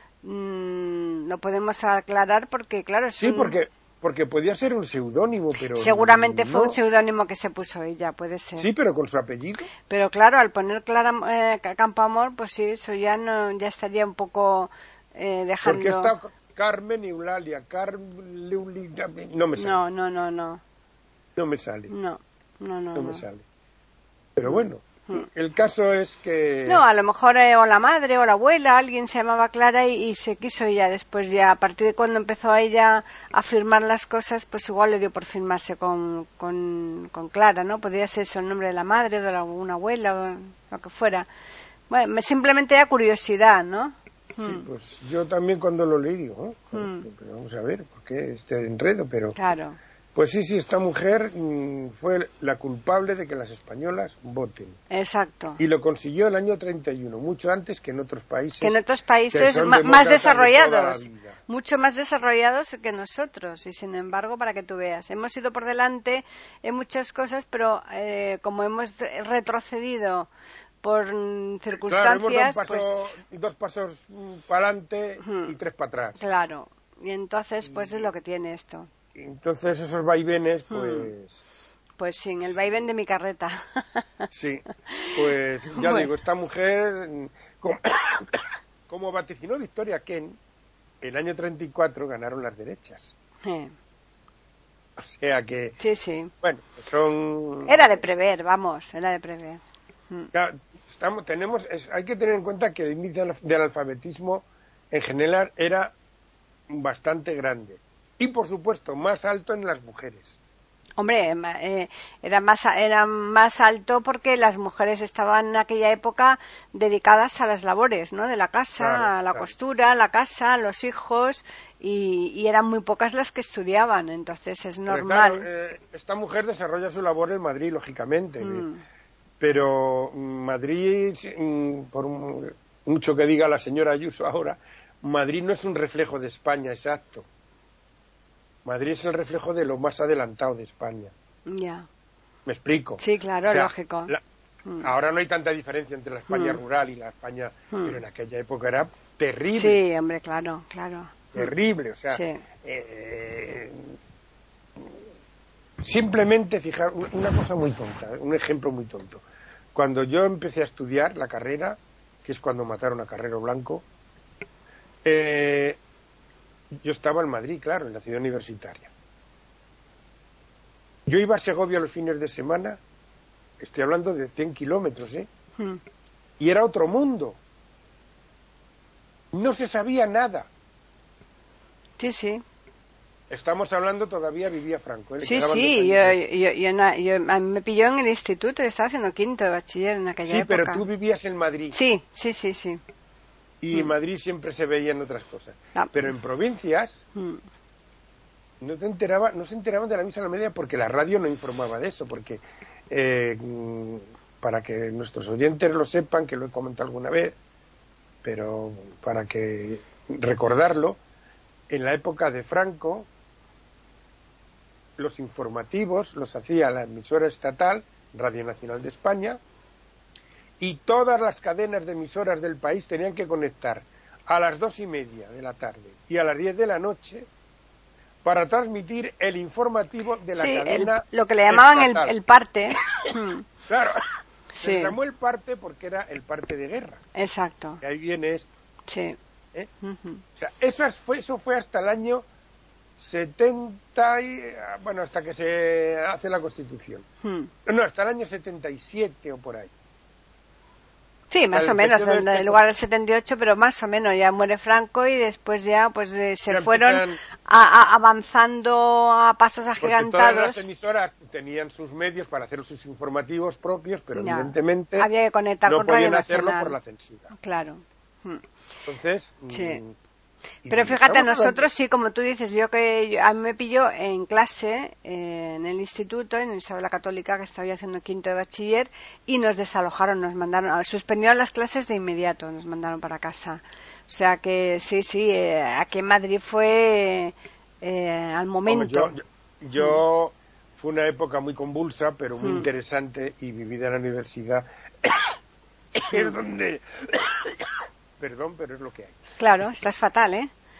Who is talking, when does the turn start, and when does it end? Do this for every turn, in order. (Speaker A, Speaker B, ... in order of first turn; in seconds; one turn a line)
Speaker A: 0.2-3.5
Speaker B: 3.2-6.8
Speaker A: 5.8-8.7
Speaker B: 8.6-9.7
Speaker A: 9.9-16.1
Speaker B: 15.6-19.8
Speaker A: 19.6-20.6
Speaker B: 21.4-21.9
Speaker A: 21.9-23.2
Speaker B: 22.9-23.4
Speaker B: 24.4-26.8
Speaker A: 24.4-25.3
Speaker A: 26.6-41.3
Speaker A: 41.9-44.7
Speaker B: 44.4-49.4
Speaker A: 46.7-47.1
Speaker A: 49.4-49.8
Speaker B: 50.1-54.8
Speaker A: 54.9-55.6
Speaker B: 55.6-58.8
Speaker A: 58.6-70.3
Speaker B: 59.3-61.4
Speaker A: 70.8-73.2
Speaker B: 71.7-76.2
Speaker A: 75.2-75.5
Speaker A: 76.2-78.9
Speaker B: 77.6-78.0
Speaker B: 79.1-81.4
Speaker A: 80.7-81.1
Speaker A: 82.0-84.3
Speaker B: 84.3-90.4
Speaker A: 84.9-85.2
Speaker A: 85.7-86.1
Speaker B: 91.0-93.1
Speaker A: 93.4-93.7
Speaker B: 95.0-95.8
Speaker A: 95.8-96.3
Speaker B: 96.4-97.9
Speaker A: 97.7-100.3
Speaker B: 100.3-105.9
Speaker B: 106.7-110.4
Speaker A: 111.0-125.5
Speaker B: 118.8-119.5
Speaker B: 124.9-128.6
Speaker A: 128.4-128.8
Speaker B: 129.4-137.3
Speaker B: 138.6-141.1
Speaker A: 141.5-141.9
Speaker B: 142.4-144.2
Speaker A: 143.0-144.1
Speaker B: 144.8-149.8
Speaker A: 146.3-146.6
Speaker A: 147.7-148.0
Speaker A: 149.5-151.5
Speaker B: 151.3-153.9
Speaker A: 152.1-152.4
Speaker B: 155.8-159.2
Speaker B: 159.7-163.8
Speaker B: 165.0-165.8
Speaker B: 166.8-168.9
Speaker B: 171.1-172.8
Speaker B: 173.6-175.3
Speaker B: 176.4-177.4
Speaker B: 179.3-180.5
Speaker A: 182.0-182.4
Speaker B: 183.3-186.2
Speaker A: 185.2-190.8
Speaker B: 190.3-191.8
Speaker A: 191.7-192.8
Speaker B: 193.6-197.0
Speaker A: 197.1-197.4
Speaker B: 198.6-207.4
Speaker B: 208.2-211.0
Speaker B: 211.7-213.1
Speaker B: 215.0-219.4
Speaker B: 220.6-227.3
Speaker B: 228.2-232.2
Speaker A: 230.3-233.5
Speaker B: 232.7-233.1
Speaker B: 233.7-234.1
Speaker A: 234.5-234.9
Speaker B: 234.6-237.0
Speaker A: 237.1-237.8
Speaker B: 237.8-238.5
Speaker A: 238.9-239.2
Speaker A: 239.8-240.2
Speaker B: 240.4-242.2
Speaker B: 243.0-247.1
Speaker A: 247.2-247.5
Speaker B: 247.7-249.7
Speaker A: 251.3-260.6
Speaker B: 251.5-252.6
Speaker B: 256.5-257.2
Speaker B: 259.8-265.1
Speaker A: 264.1-266.8
Speaker B: 265.7-267.3
Speaker A: 267.3-268.4
Speaker B: 268.9-270.0
Speaker A: 269.5-269.8
Speaker B: 270.6-271.7
Speaker A: 270.7-289.1
Speaker B: 288.7-295.4
Speaker A: 292.4-292.7
Speaker B: 295.9-299.2
Speaker A: 299.4-300.5